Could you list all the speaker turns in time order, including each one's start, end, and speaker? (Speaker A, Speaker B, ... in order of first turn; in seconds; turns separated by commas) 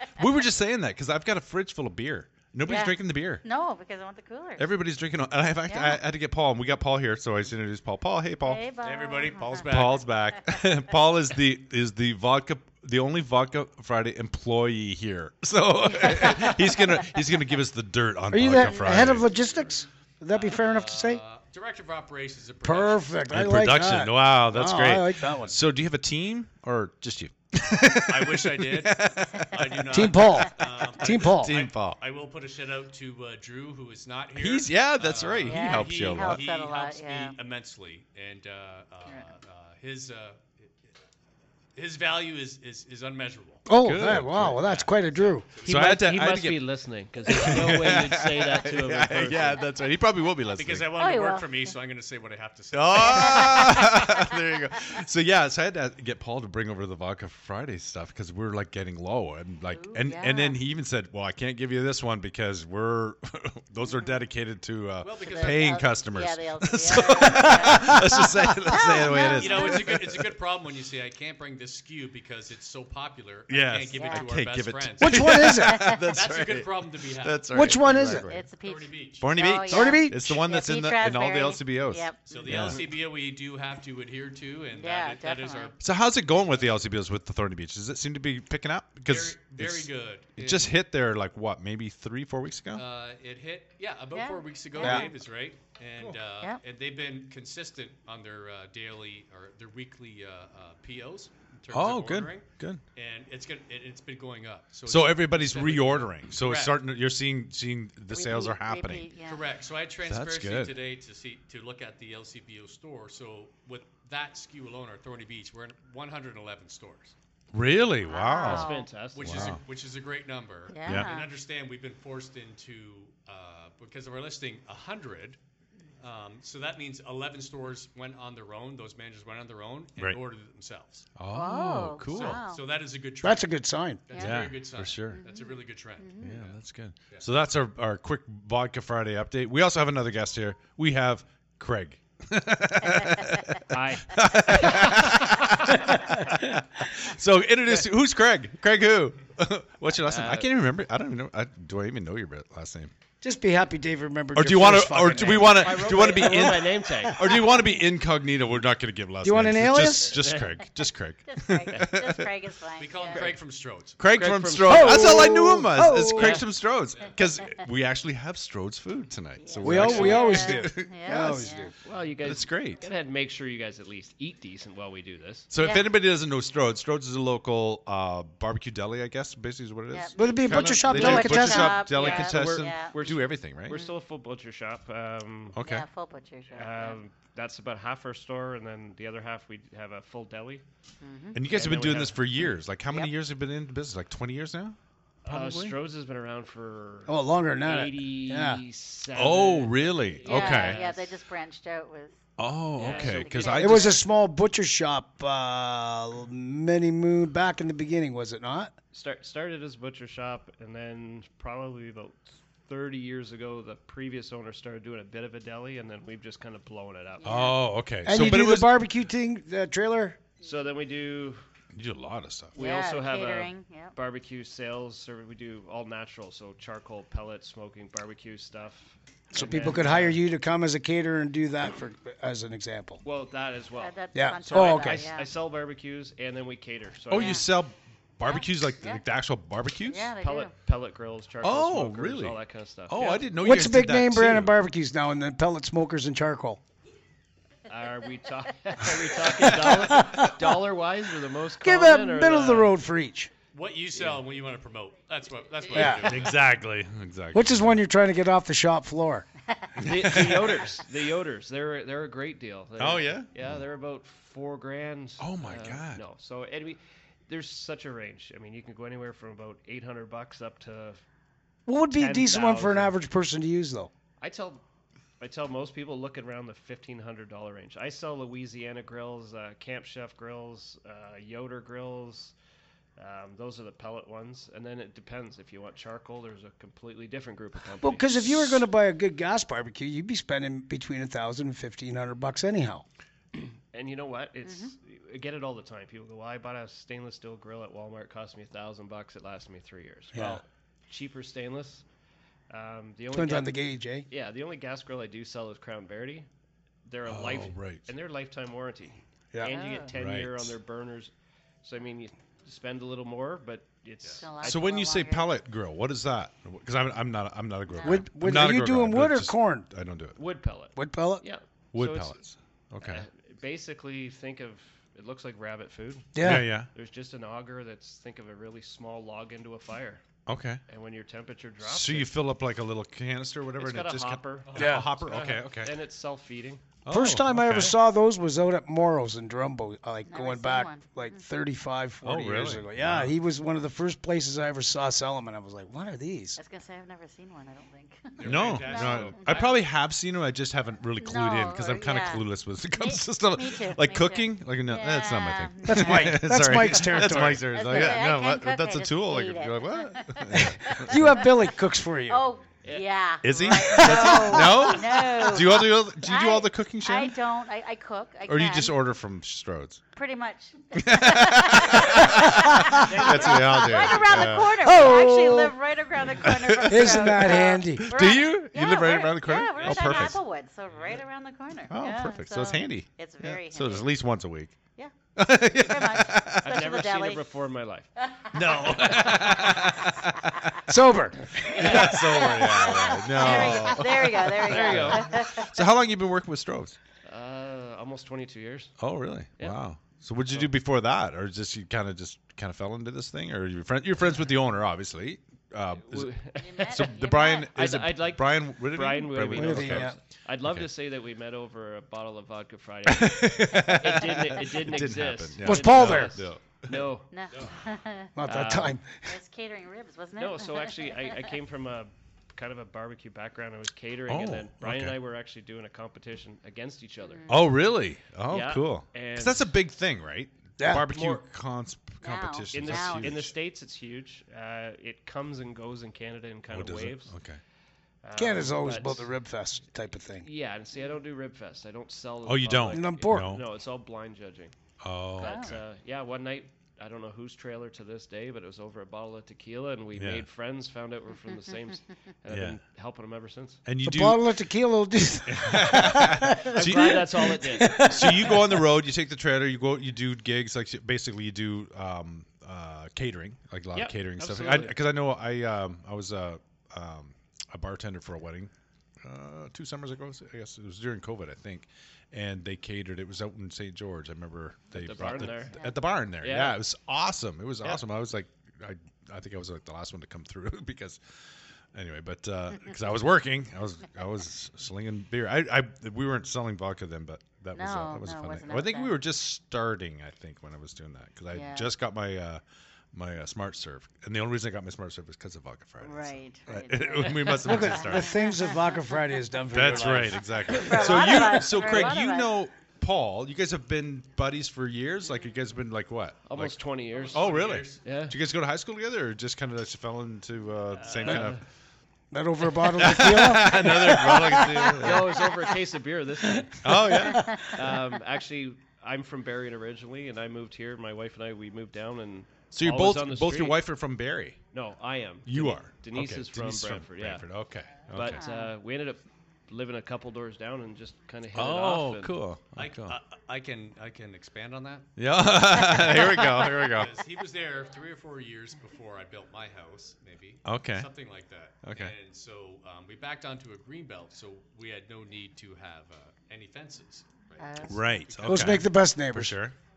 Speaker A: 0.2-3.4, Speaker B: 2.7-4.7, Speaker A: 4.6-8.6, Speaker B: 5.7-6.0, Speaker B: 8.4-9.6, Speaker C: 8.8-10.1, Speaker A: 9.7-19.3, Speaker B: 15.9-16.7, Speaker D: 18.3-21.2, Speaker C: 18.9-19.7, Speaker C: 20.3-23.2, Speaker D: 22.6-25.6, Speaker A: 23.3-30.1, Speaker C: 28.1-40.7, Speaker D: 29.9-31.6, Speaker A: 31.1-32.0, Speaker A: 34.4-36.4, Speaker B: 35.5-37.3, Speaker C: 41.7-43.6, Speaker D: 43.7-45.9, Speaker A: 43.7-44.7, Speaker C: 44.5-45.7, Speaker E: 45.6-49.7, Speaker A: 45.6-46.6, Speaker A: 47.2-50.9, Speaker C: 50.5-53.8, Speaker B: 51.0-51.7, Speaker A: 52.7-70.2, Speaker B: 53.0-54.2, Speaker B: 59.7-60.6, Speaker B: 63.9-64.2, Speaker C: 65.0-66.0, Speaker B: 65.2-68.0, Speaker B: 68.7-69.9, Speaker C: 69.3-75.5, Speaker A: 73.5-78.5, Speaker B: 74.0-74.2, Speaker D: 75.0-76.0, Speaker B: 75.6-76.0, Speaker C: 76.1-77.7, Speaker D: 77.5-78.3, Speaker B: 78.2-82.8, Speaker C: 78.6-79.3, Speaker A: 79.2-82.9, Speaker D: 79.7-80.4, Speaker C: 82.3-85.8, Speaker B: 84.8-85.7, Speaker A: 85.8-92.8, Speaker C: 89.0-90.7, Speaker C: 92.7-106.8, Speaker B: 94.1-95.1, Speaker A: 94.8-95.1, Speaker A: 101.7-102.8, Speaker A: 104.9-109.0, Speaker B: 108.1-109.4, Speaker C: 109.2-117.1, Speaker A: 110.0-110.7, Speaker A: 117.5-119.6, Speaker B: 118.0-118.9, Speaker E: 118.4-119.6, Speaker C: 119.1-125.4, Speaker B: 120.7-121.3, Speaker C: 126.0-131.1, Speaker A: 131.2-132.4, Speaker B: 131.3-132.6, Speaker C: 132.1-136.6, Speaker D: 133.2-134.0, Speaker B: 134.1-134.4, Speaker A: 134.2-135.2, Speaker B: 135.1-136.4, Speaker A: 136.2-152.9, Speaker E: 143.7-144.9, Speaker E: 150.1-150.5, Speaker D: 153.2-155.8, Speaker A: 154.3-162.3, Speaker E: 155.0-157.4, Speaker D: 159.2-160.2, Speaker E: 160.0-160.5, Speaker B: 161.3-163.2, Speaker C: 162.8-164.0, Speaker E: 163.1-163.4, Speaker A: 164.0-170.9, Speaker E: 164.0-165.4, Speaker D: 164.6-166.4, Speaker E: 166.1-166.5, Speaker B: 169.4-171.7, Speaker D: 169.6-171.7, Speaker E: 169.7-170.1, Speaker E: 171.8-175.5, Speaker A: 172.2-172.8, Speaker A: 175.5-183.9, Speaker B: 175.6-175.9, Speaker B: 179.9-183.0, Speaker D: 180.2-181.8, Speaker E: 180.8-185.6, Speaker A: 185.5-185.8, Speaker B: 185.6-187.0, Speaker E: 186.5-190.6, Speaker B: 191.0-191.4, Speaker A: 191.3-194.8, Speaker E: 191.4-192.6, Speaker E: 195.2-201.1, Speaker A: 195.3-195.8, Speaker D: 197.1-198.6, Speaker A: 199.1-200.8, Speaker B: 200.2-202.2, Speaker A: 202.4-204.0, Speaker E: 202.8-203.8, Speaker B: 202.8-204.0, Speaker D: 203.6-208.8, Speaker E: 208.9-217.5, Speaker B: 217.2-217.6, Speaker A: 217.2-218.8, Speaker D: 218.0-220.2, Speaker E: 220.4-221.4, Speaker A: 221.7-222.6, Speaker E: 222.5-230.2, Speaker B: 222.6-223.9, Speaker D: 229.3-233.0, Speaker E: 233.0-237.4, Speaker B: 233.8-235.3, Speaker D: 234.1-235.1, Speaker A: 237.1-240.1, Speaker B: 237.1-237.5, Speaker B: 238.2-239.0, Speaker B: 239.8-240.5, Speaker E: 240.2-243.4, Speaker A: 241.4-244.6, Speaker D: 243.4-246.6, Speaker E: 247.7-252.8, Speaker D: 249.4-250.5, Speaker D: 251.6-253.3, Speaker C: 253.5-256.4, Speaker E: 253.9-254.2, Speaker D: 255.7-256.2, Speaker A: 255.8-257.8, Speaker D: 257.3-259.2, Speaker E: 259.8-271.0, Speaker A: 259.8-260.7, Speaker A: 262.8-263.6, Speaker A: 265.2-266.0, Speaker D: 271.7-273.9, Speaker E: 271.9-272.9, Speaker E: 274.2-274.6, Speaker E: 275.2-282.3, Speaker E: 283.0-288.4, Speaker D: 287.8-292.9, Speaker E: 293.4-301.8, Speaker B: 294.4-294.8, Speaker D: 300.1-300.4, Speaker E: 302.5-303.6, Speaker D: 303.1-304.1, Speaker E: 304.1-306.3, Speaker E: 306.9-311.1, Speaker A: 307.0-307.9, Speaker B: 309.5-309.9, Speaker A: 309.9-310.5, Speaker E: 311.6-314.6, Speaker B: 314.2-315.3, Speaker A: 314.4-320.2, Speaker B: 317.7-318.1, Speaker D: 317.8-319.7, Speaker E: 320.2-322.2, Speaker D: 320.8-321.2, Speaker A: 321.7-323.0, Speaker E: 322.8-330.0, Speaker D: 326.1-326.5, Speaker A: 326.2-326.7, Speaker A: 330.3-330.6, Speaker E: 330.7-332.1, Speaker A: 331.6-335.7, Speaker E: 333.6-336.8, Speaker D: 334.6-334.9, Speaker A: 336.8-337.8, Speaker D: 336.9-346.4, Speaker B: 340.1-341.2, Speaker A: 342.0-343.1, Speaker B: 346.4-349.5, Speaker C: 348.2-349.7, Speaker A: 348.2-361.2, Speaker B: 351.0-356.2, Speaker D: 355.6-358.0, Speaker B: 357.5-361.1, Speaker D: 360.3-362.2, Speaker B: 362.1-368.7, Speaker E: 362.6-363.7, Speaker A: 363.2-367.1, Speaker D: 363.7-364.7, Speaker A: 368.3-369.8, Speaker B: 369.9-383.9, Speaker A: 370.8-374.6, Speaker E: 372.7-374.1, Speaker D: 374.4-375.6, Speaker A: 376.2-380.2, Speaker D: 376.7-378.0, Speaker C: 379.6-380.2, Speaker A: 381.7-384.6, Speaker A: 385.1-386.7, Speaker B: 385.6-387.2, Speaker E: 386.4-389.7, Speaker A: 388.3-390.6, Speaker D: 390.7-391.5, Speaker E: 391.5-392.4, Speaker A: 391.5-396.8, Speaker B: 391.6-395.6, Speaker E: 393.2-393.7, Speaker E: 394.4-395.2, Speaker E: 397.1-398.8, Speaker A: 398.8-410.7, Speaker E: 405.8-417.1, Speaker B: 406.4-407.5, Speaker D: 409.3-409.9, Speaker A: 412.9-416.9, Speaker D: 415.4-416.3, Speaker B: 417.1-418.2, Speaker D: 418.2-418.9, Speaker E: 418.2-418.8, Speaker B: 419.0-421.3, Speaker E: 420.2-427.4, Speaker A: 424.1-425.0, Speaker B: 427.0-427.4, Speaker A: 427.3-433.3, Speaker E: 428.3-429.5, Speaker D: 430.6-430.9, Speaker E: 430.9-431.2, Speaker B: 432.0-433.2, Speaker E: 432.5-437.1, Speaker A: 436.5-437.4, Speaker E: 438.0-439.1, Speaker D: 438.2-440.3, Speaker E: 440.2-444.5, Speaker A: 442.2-443.4, Speaker D: 442.7-443.4, Speaker A: 444.8-445.6, Speaker E: 445.2-453.6, Speaker B: 445.2-445.5, Speaker A: 449.9-450.2, Speaker A: 452.3-452.6, Speaker A: 453.6-454.3, Speaker D: 453.8-458.7, Speaker A: 455.3-468.5, Speaker E: 456.4-458.4, Speaker E: 463.7-464.8, Speaker A: 469.0-481.0, Speaker E: 474.7-475.6, Speaker E: 476.2-476.6, Speaker A: 481.7-492.4, Speaker B: 487.5-488.9, Speaker B: 491.3-491.7, Speaker A: 492.9-498.2, Speaker B: 495.8-499.0, Speaker D: 497.4-501.1, Speaker A: 499.5-506.6, Speaker B: 500.5-502.3, Speaker E: 506.3-508.1, Speaker C: 506.9-507.8, Speaker A: 507.1-511.4, Speaker E: 510.8-511.4, Speaker D: 512.1-515.1, Speaker A: 512.8-515.2, Speaker E: 514.8-516.8, Speaker D: 516.4-517.7, Speaker A: 516.6-517.5, Speaker E: 517.5-523.6, Speaker A: 522.5-524.4, Speaker E: 524.5-527.2, Speaker A: 525.2-528.2, Speaker E: 527.9-532.2, Speaker B: 528.0-528.5, Speaker A: 531.3-533.0, Speaker C: 532.5-534.9, Speaker A: 535.0-536.9, Speaker C: 535.6-548.6, Speaker A: 540.4-540.9, Speaker A: 541.6-541.9, Speaker B: 547.4-547.8, Speaker A: 547.7-549.5, Speaker D: 548.2-549.4